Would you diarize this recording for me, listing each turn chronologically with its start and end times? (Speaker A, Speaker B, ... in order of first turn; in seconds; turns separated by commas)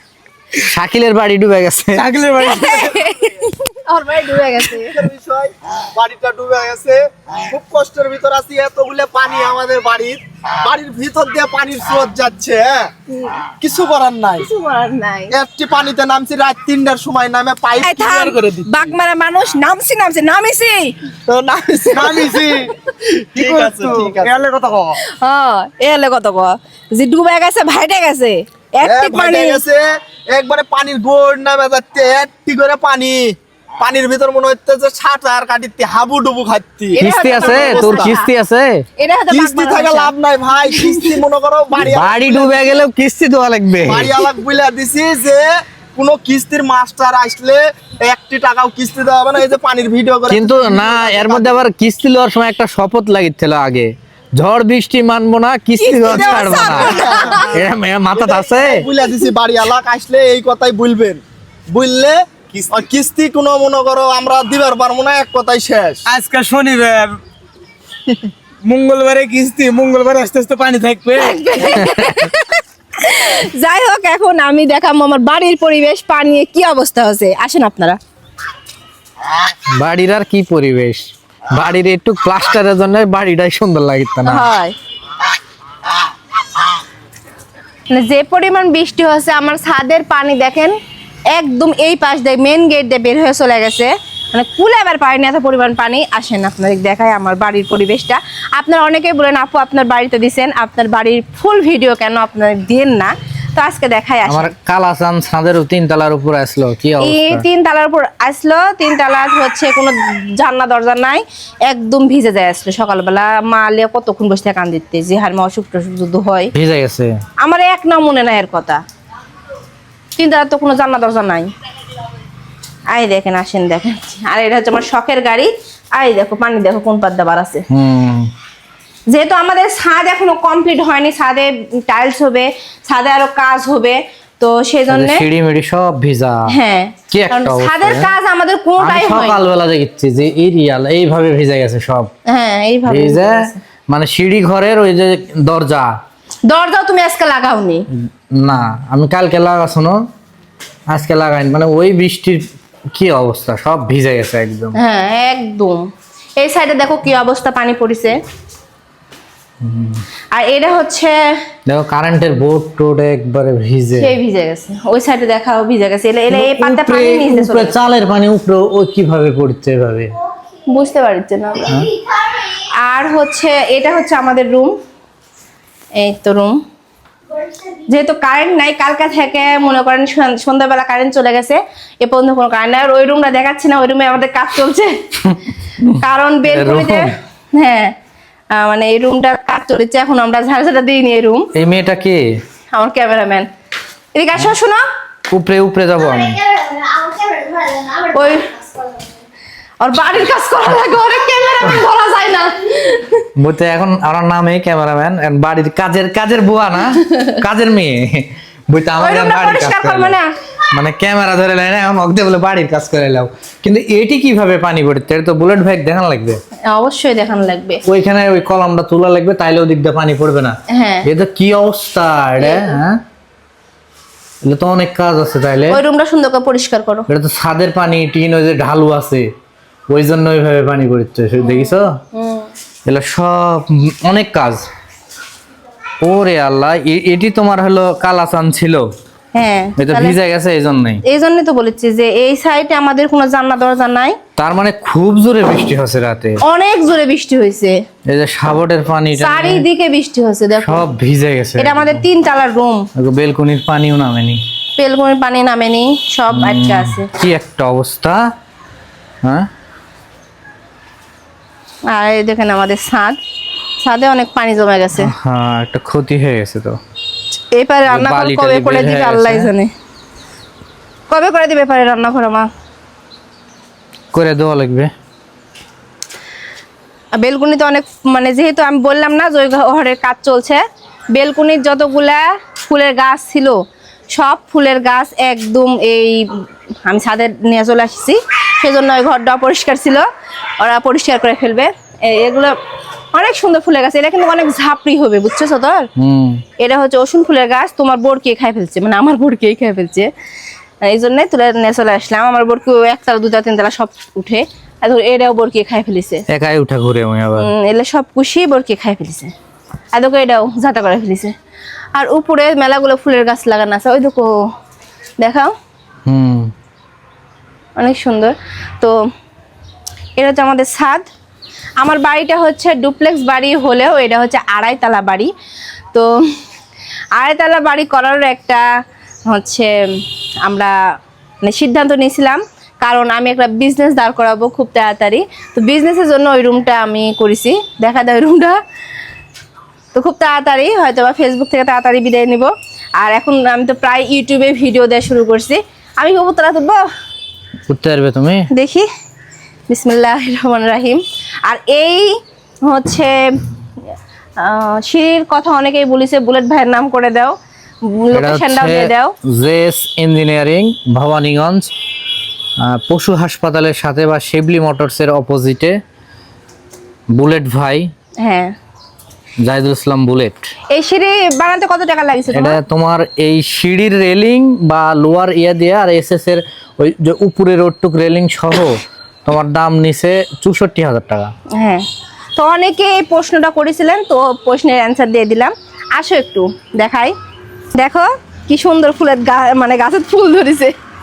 Speaker A: 0.7-2.0, Speaker B: 1.9-3.1, Speaker C: 2.4-5.0, Speaker D: 4.9-12.9, Speaker C: 13.1-13.4, Speaker D: 13.6-14.5, Speaker C: 14.4-15.3, Speaker D: 15.3-18.7, Speaker C: 17.8-21.0, Speaker D: 21.3-22.7, Speaker C: 21.7-22.5, Speaker B: 21.9-22.5, Speaker D: 23.4-24.3, Speaker B: 23.4-25.0, Speaker C: 25.1-29.6, Speaker D: 28.8-38.1, Speaker C: 37.0-38.3, Speaker A: 37.0-38.9, Speaker C: 39.0-40.1, Speaker D: 39.3-42.6, Speaker C: 40.7-41.2, Speaker A: 41.8-44.1, Speaker D: 43.9-51.6, Speaker A: 50.3-58.9, Speaker C: 55.8-57.5, Speaker D: 56.2-57.6, Speaker D: 58.1-66.0, Speaker B: 66.1-67.2, Speaker B: 68.1-71.8, Speaker C: 71.2-78.0, Speaker A: 71.8-72.1, Speaker A: 79.8-84.5, Speaker C: 84.2-84.7, Speaker C: 87.9-90.8, Speaker C: 91.3-104.5, Speaker A: 104.3-107.5, Speaker C: 107.0-116.5, Speaker A: 116.5-117.2, Speaker C: 117.4-118.8, Speaker C: 120.2-121.5, Speaker C: 122.9-127.7, Speaker A: 127.7-128.3, Speaker C: 129.1-135.3, Speaker A: 134.9-136.6, Speaker C: 136.5-139.4, Speaker A: 137.1-138.1, Speaker A: 138.8-142.1, Speaker C: 142.3-143.6, Speaker A: 142.9-145.9, Speaker C: 146.5-147.9, Speaker A: 147.9-150.0, Speaker A: 150.9-154.8, Speaker C: 154.8-158.2, Speaker A: 159.6-160.0, Speaker C: 160.3-161.2, Speaker A: 161.7-164.1, Speaker C: 164.0-167.8, Speaker A: 166.3-170.1, Speaker C: 170.7-171.9, Speaker C: 172.4-174.7, Speaker C: 176.0-176.6, Speaker C: 177.9-184.9, Speaker A: 185.2-187.1, Speaker C: 186.0-187.9, Speaker C: 188.5-191.5, Speaker A: 191.5-192.2, Speaker C: 192.7-193.5, Speaker C: 194.2-194.8, Speaker A: 195.3-196.4, Speaker C: 197.0-198.7, Speaker C: 199.8-203.2, Speaker A: 203.4-210.2, Speaker C: 209.0-210.3, Speaker A: 210.7-216.4, Speaker C: 216.7-217.8, Speaker A: 217.9-223.0, Speaker C: 220.7-221.1, Speaker C: 222.4-222.8, Speaker A: 224.4-225.8, Speaker C: 225.7-227.1, Speaker A: 227.1-229.3, Speaker A: 229.9-232.0, Speaker C: 231.4-232.5, Speaker A: 232.9-234.7, Speaker A: 236.0-238.9, Speaker C: 239.3-240.2, Speaker A: 239.8-241.0, Speaker C: 241.1-244.2, Speaker A: 244.4-246.4, Speaker C: 246.4-247.8, Speaker A: 248.1-249.7, Speaker C: 249.2-250.9, Speaker A: 250.6-252.0, Speaker C: 251.6-252.9, Speaker A: 253.0-254.4, Speaker C: 254.8-257.1, Speaker A: 256.3-258.3, Speaker A: 259.2-259.5, Speaker C: 261.9-263.2, Speaker C: 263.8-265.1, Speaker A: 265.0-266.8, Speaker C: 267.5-269.7, Speaker A: 267.9-269.5, Speaker C: 271.1-272.5, Speaker A: 274.1-274.9, Speaker C: 277.2-283.6, Speaker C: 284.1-290.1, Speaker C: 290.6-292.6, Speaker C: 293.1-295.9, Speaker A: 296.0-296.4, Speaker C: 296.6-300.1, Speaker C: 300.9-306.2, Speaker A: 306.3-307.5, Speaker C: 307.4-309.3, Speaker C: 309.9-311.3, Speaker C: 311.9-314.4, Speaker C: 315.2-315.5, Speaker A: 316.1-316.5, Speaker C: 317.8-319.0, Speaker C: 320.2-321.1, Speaker C: 321.8-325.3, Speaker C: 327.2-328.6, Speaker C: 329.3-330.7, Speaker C: 331.4-338.6, Speaker C: 339.9-346.9, Speaker A: 347.7-348.5, Speaker C: 348.5-348.9, Speaker C: 349.7-352.1, Speaker C: 352.7-353.1, Speaker C: 354.4-357.4, Speaker C: 357.9-359.1, Speaker A: 358.1-361.7, Speaker A: 362.6-365.8, Speaker A: 367.1-367.9, Speaker C: 368.2-368.5, Speaker A: 369.4-370.5, Speaker C: 370.7-372.6, Speaker A: 372.3-381.3, Speaker C: 381.6-381.8, Speaker C: 382.4-387.1, Speaker C: 387.8-390.7